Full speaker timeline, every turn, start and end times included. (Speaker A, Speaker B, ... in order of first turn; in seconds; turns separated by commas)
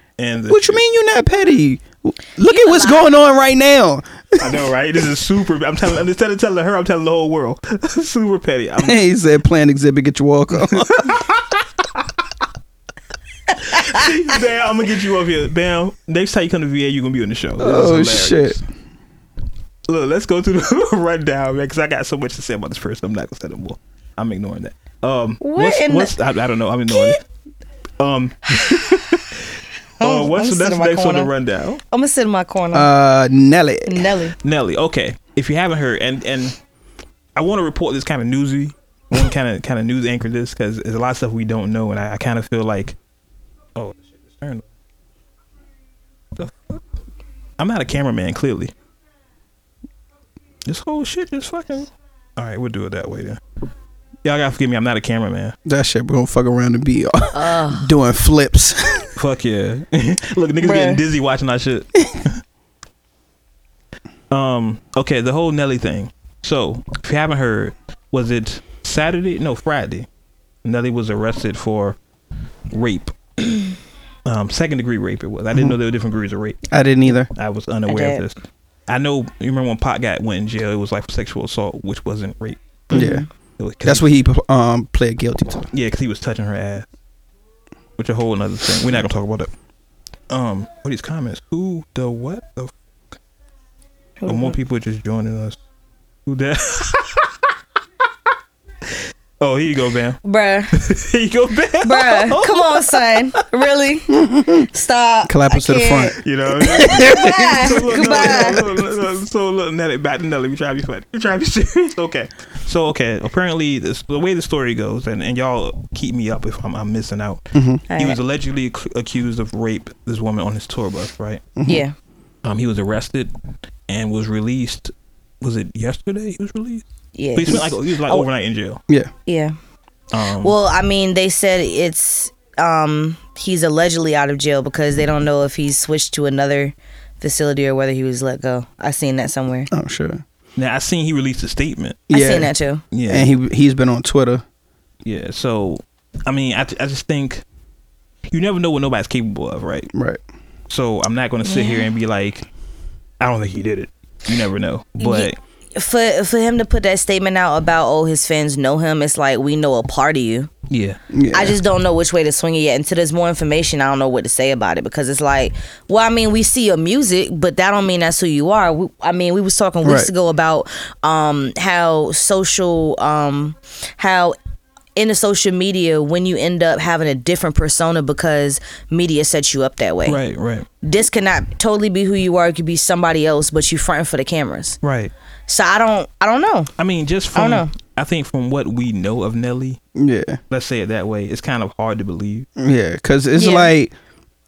Speaker A: 0.2-0.8, Speaker B: 0.5-4.6, Speaker C: 2.5-3.1, Speaker A: 4.4-9.1, Speaker B: 8.8-11.2, Speaker A: 10.5-12.1, Speaker A: 13.6-18.6, Speaker B: 17.6-18.6, Speaker A: 19.9-27.2, Speaker C: 25.4-26.1, Speaker A: 28.0-29.5, Speaker C: 30.0-31.3, Speaker A: 30.0-31.8, Speaker C: 31.9-32.9, Speaker B: 32.7-34.1, Speaker C: 33.9-34.4, Speaker A: 34.4-36.6, Speaker A: 37.4-43.0, Speaker A: 43.8-44.6, Speaker A: 46.4-46.8, Speaker A: 47.6-48.7, Speaker A: 50.7-53.4, Speaker A: 54.2-55.5, Speaker B: 55.6-59.1, Speaker C: 57.3-57.9, Speaker A: 59.2-62.4, Speaker C: 60.6-61.0, Speaker A: 64.3-70.1, Speaker A: 70.6-72.0, Speaker A: 72.7-73.7, Speaker A: 74.3-76.6, Speaker B: 76.7-77.3, Speaker A: 77.3-78.3, Speaker C: 77.9-78.2, Speaker A: 78.9-84.1, Speaker B: 82.9-83.2, Speaker C: 82.9-83.3, Speaker B: 83.8-85.7, Speaker A: 85.7-86.9, Speaker A: 88.0-89.5, Speaker A: 90.3-92.7, Speaker C: 94.2-94.5, Speaker A: 94.3-95.6, Speaker A: 96.3-97.3, Speaker A: 99.4-100.2, Speaker C: 100.2-100.7, Speaker A: 100.7-103.4, Speaker C: 101.8-108.6, Speaker B: 104.1-104.7, Speaker B: 105.3-108.6, Speaker A: 106.2-121.4, Speaker B: 117.5-117.8, Speaker C: 117.9-118.2, Speaker B: 121.6-121.8, Speaker C: 121.7-121.9, Speaker A: 122.4-123.3, Speaker A: 123.9-126.8, Speaker C: 127.2-128.3, Speaker A: 127.3-128.8, Speaker C: 129.3-129.6, Speaker A: 130.1-130.6, Speaker C: 130.4-139.7, Speaker B: 139.7-140.2, Speaker A: 140.6-142.1, Speaker B: 142.1-142.5, Speaker C: 142.1-142.8, Speaker A: 142.9-143.3, Speaker B: 143.1-144.4, Speaker A: 145.1-147.4, Speaker A: 148.3-149.9, Speaker B: 149.9-150.2, Speaker A: 150.7-152.5, Speaker C: 151.4-151.9, Speaker A: 153.2-155.4, Speaker C: 155.0-160.5, Speaker A: 160.7-161.0, Speaker B: 161.1-161.6, Speaker C: 161.3-174.4, Speaker B: 169.8-170.1, Speaker C: 175.0-180.2, Speaker A: 180.1-180.7, Speaker C: 180.8-184.8, Speaker A: 184.8-185.1, Speaker C: 185.5-186.7, Speaker A: 186.8-189.8, Speaker C: 187.3-187.7, Speaker B: 190.0-190.4, Speaker A: 190.5-192.5, Speaker B: 192.6-193.9, Speaker C: 193.4-193.7